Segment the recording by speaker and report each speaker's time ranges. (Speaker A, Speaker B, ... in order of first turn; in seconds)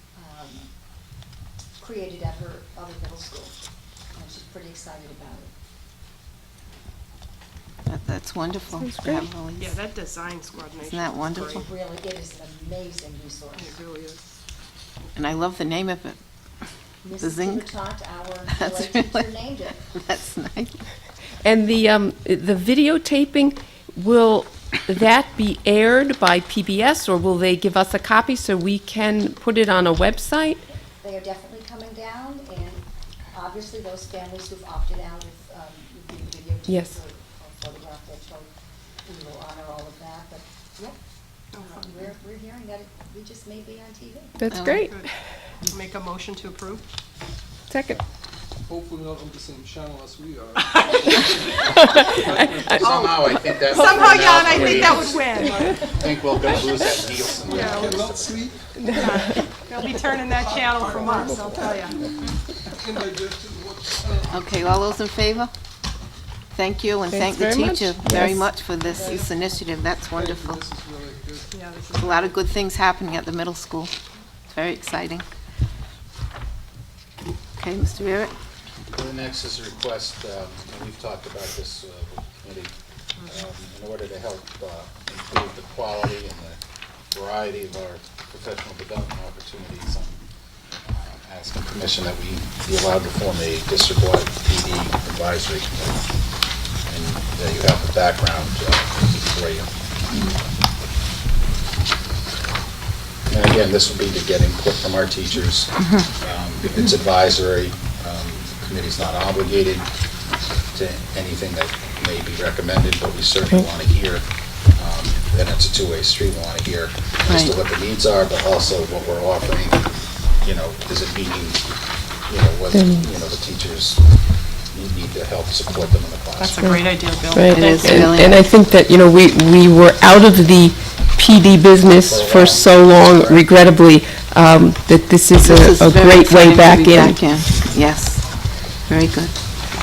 Speaker A: 0.1-0.7, 1.8-3.5, 4.1-5.5, 11.4-13.8, 17.0-19.9, 30.7-38.5, 39.0-41.0, 41.6-44.4, 68.9-69.6
Speaker B: 7.9-9.8, 10.8-11.7, 15.2-16.2, 17.2-17.6, 18.5-19.3, 19.9-20.8, 44.5-44.8, 64.3-65.5, 66.5-70.6, 71.9-73.9, 74.5-75.2, 77.6-78.3, 127.5-128.4, 135.4-138.2, 138.9-139.3
Speaker C: 8.8-9.2, 21.4-30.6, 36.7-36.9, 44.4-45.0, 47.7-48.0, 51.9-52.2, 58.8-59.5, 67.1-68.4, 122.7-123.0, 127.3-137.4
Speaker D: 9.6-11.6, 13.6-14.2, 41.5-41.9, 45.6-46.8, 50.7-51.3, 52.9-55.9, 57.5-58.0, 59.0-62.0, 71.5-72.3, 126.4-128.1
Speaker E: 48.6-52.9, 54.0-59.3, 60.0-64.8, 68.9-69.3, 70.0-71.8
Speaker F: 52.7-58.6, 78.9-82.7, 83.2-86.6, 87.1-90.2, 90.9-95.9, 96.9-99.7, 103.3-109.8, 110.7-114.2, 114.8-119.8, 120.4-121.6, 122.3-124.0, 124.7-126.7, 132.0-133.5